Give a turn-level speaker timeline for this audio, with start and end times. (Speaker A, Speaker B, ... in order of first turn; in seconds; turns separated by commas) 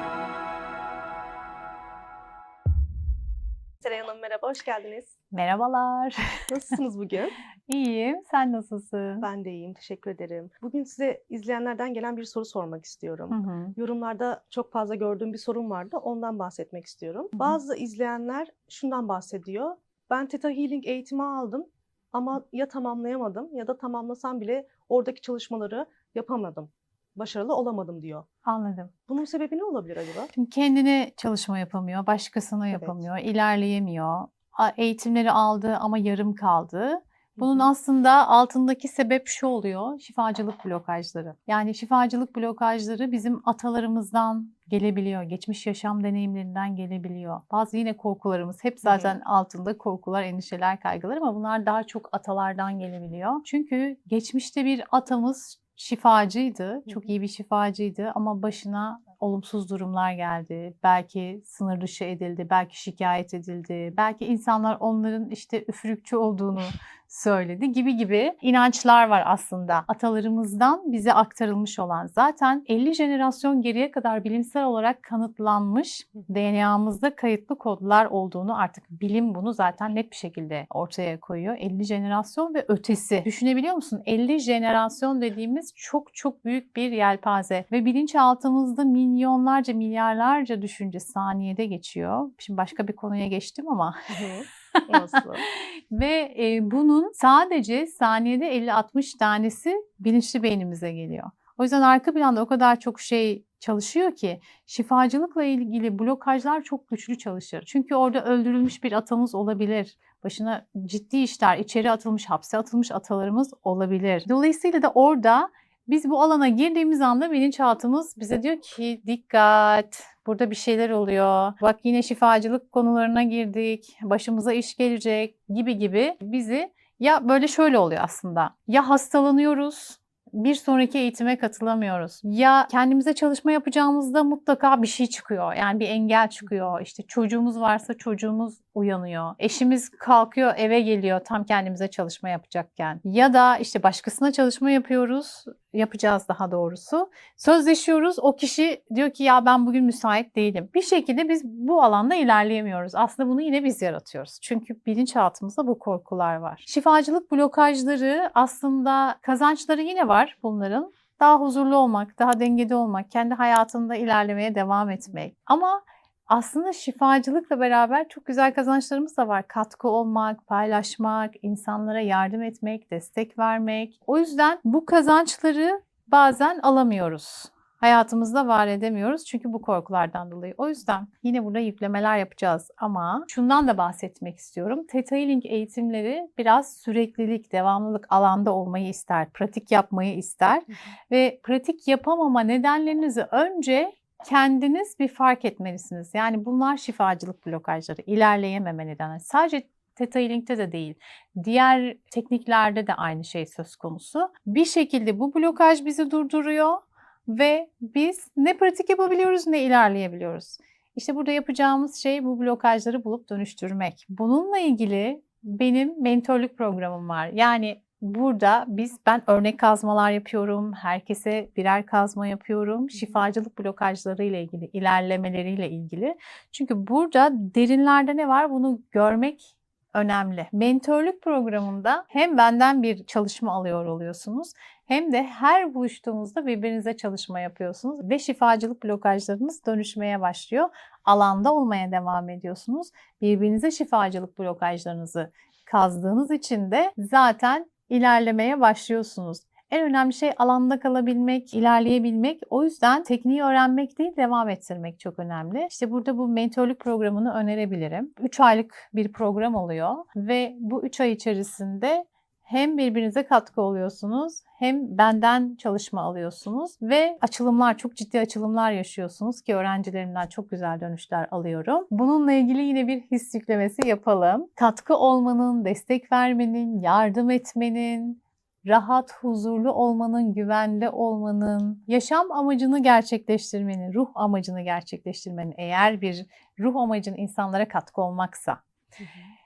Speaker A: 3.8-5.1, Speaker B: 5.3-6.4, Speaker A: 6.5-7.3, Speaker B: 7.7-9.3, Speaker A: 9.2-28.2, Speaker B: 13.3-13.7, Speaker B: 28.4-28.9, Speaker A: 29.1-30.3, Speaker B: 30.3-94.0, Speaker A: 32.7-33.0, Speaker A: 37.4-37.7, Speaker A: 48.8-49.1, Speaker A: 94.1-95.4, Speaker B: 95.5-288.6, Speaker A: 289.0-289.3